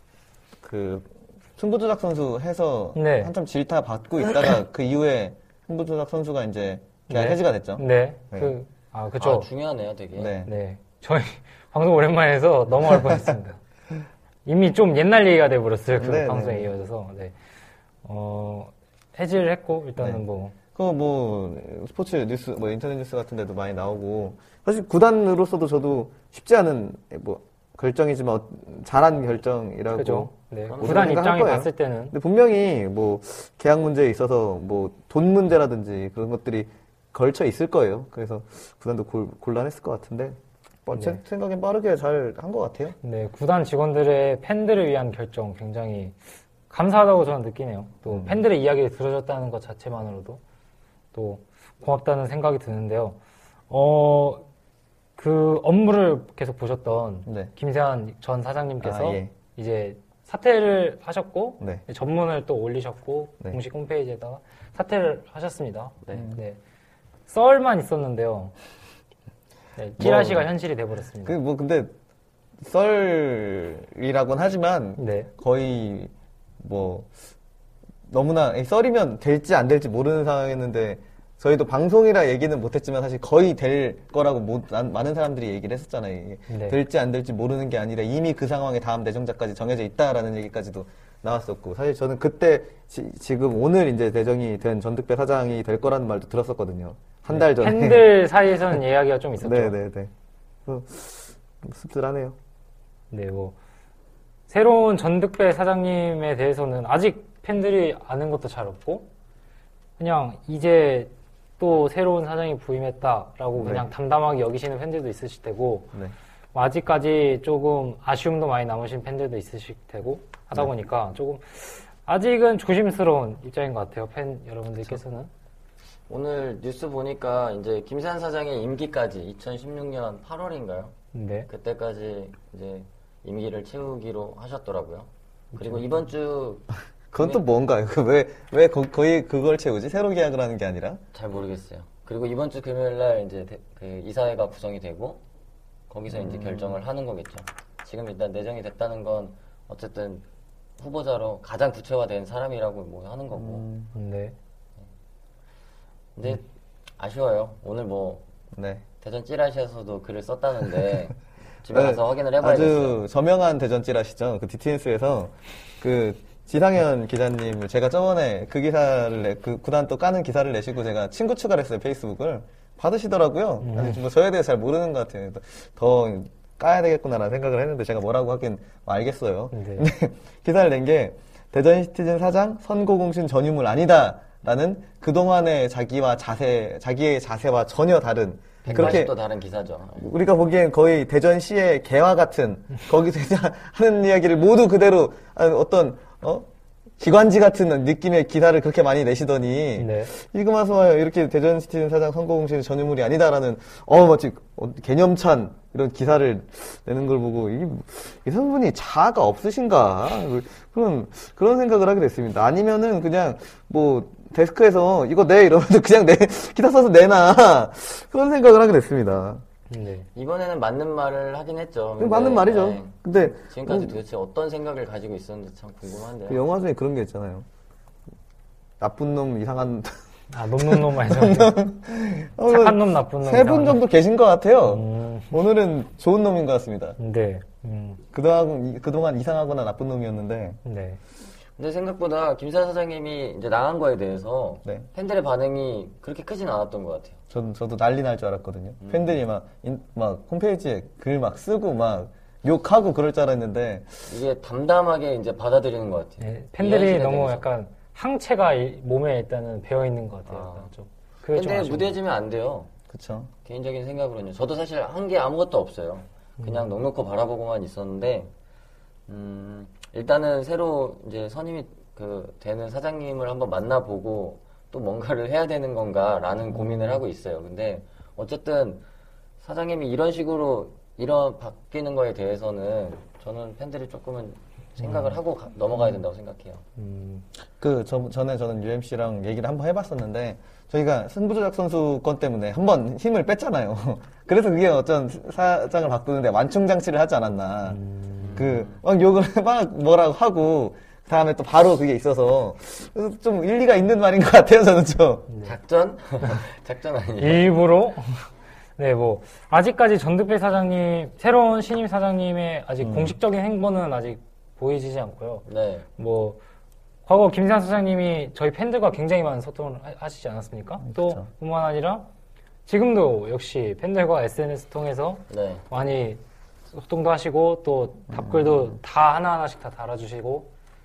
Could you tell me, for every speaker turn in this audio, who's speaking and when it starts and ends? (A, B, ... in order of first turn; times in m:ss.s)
0:00.6-0:08.5 A
0:02.9-0:03.3 B
0:07.1-0:09.5 B
0:09.2-0:10.3 C
0:10.1-0:10.5 A
0:10.4-0:13.6 B
0:14.4-0:17.3 B
0:16.0-0:16.7 A
0:18.0-0:20.6 B
0:20.7-0:43.0 A
0:29.9-0:32.2 B
0:30.7-0:31.2 C
0:40.9-0:41.2 B
0:43.0-0:46.1 B
0:46.7-0:50.4 B
0:48.1-0:48.4 A
0:51.1-0:53.2 B
0:53.7-0:54.4 B
0:55.2-1:06.6 B
0:57.2-0:57.5 A
0:58.8-0:59.3 A
1:06.1-1:06.4 A
1:07.3-1:08.5 B
1:09.8-1:11.4 B
1:10.0-1:10.5 A
1:11.2-1:11.9 A
1:12.6-1:17.1 A
1:15.0-1:15.3 B
1:18.1-1:38.1 A
1:26.5-1:26.8 B
1:37.3-1:39.8 B
1:39.4-1:40.1 A
1:40.6-1:42.4 A
1:43.1-1:43.6 B
1:44.5-1:49.1 B
1:50.0-1:55.9 B
1:53.6-1:53.8 A
1:56.5-2:05.3 B
2:06.1-2:11.0 C
2:11.1-2:11.5 B
2:11.5-2:17.4 C
2:15.5-2:15.8 B
2:17.1-2:21.0 A
2:21.1-2:25.2 C
2:25.9-2:30.2 C
2:26.1-2:26.8 A
2:30.8-2:33.6 C
2:33.3-2:33.9 A
2:33.9-2:34.3 B
2:36.2-2:36.4 C
2:37.0-2:38.2 C
2:38.5-2:38.8 A
2:39.0-2:43.0 C
2:41.7-3:09.1 A
2:53.6-2:54.0 B
2:59.5-2:59.9 B
3:08.6-3:10.1 C
3:08.7-3:09.0 B
3:10.0-3:16.5 A
3:17.0-3:39.4 A
3:19.8-3:20.1 B
3:39.7-3:40.1 B
3:40.1-3:46.4 C
3:42.0-3:44.0 A
3:46.3-3:47.4 A
3:48.8-3:50.0 A
3:50.3-3:51.6 B
3:50.6-3:57.0 A
3:52.4-3:53.8 B
3:54.6-3:55.4 B
3:57.0-3:58.0 B
3:58.1-4:00.6 A
4:00.6-4:01.0 B
4:01.6-4:07.2 C
4:07.3-4:14.0 A
4:08.8-4:09.2 C
4:14.1-4:17.5 C
4:16.2-4:22.0 B
4:20.3-4:20.7 C
4:21.3-4:22.7 C
4:22.9-4:23.3 A
4:23.4-4:28.3 C
4:29.1-4:38.8 C
4:36.6-4:37.0 B
4:39.4-4:46.6 C
4:44.8-4:45.2 B
4:46.8-4:47.2 B
4:47.6-4:57.8 A
4:57.6-4:58.5 B
4:58.2-4:58.8 C
4:58.4-5:05.3 A
5:05.3-5:05.6 B
5:05.4-5:07.5 C
5:07.2-5:08.2 B
5:08.8-5:15.4 B
5:12.8-5:13.1 A
5:15.4-5:15.9 C
5:16.0-5:16.4 B
5:17.0-5:22.1 B
5:20.8-5:21.3 A
5:22.6-5:26.2 B
5:25.3-5:25.6 C
5:26.7-5:30.5 B
5:28.1-5:28.8 A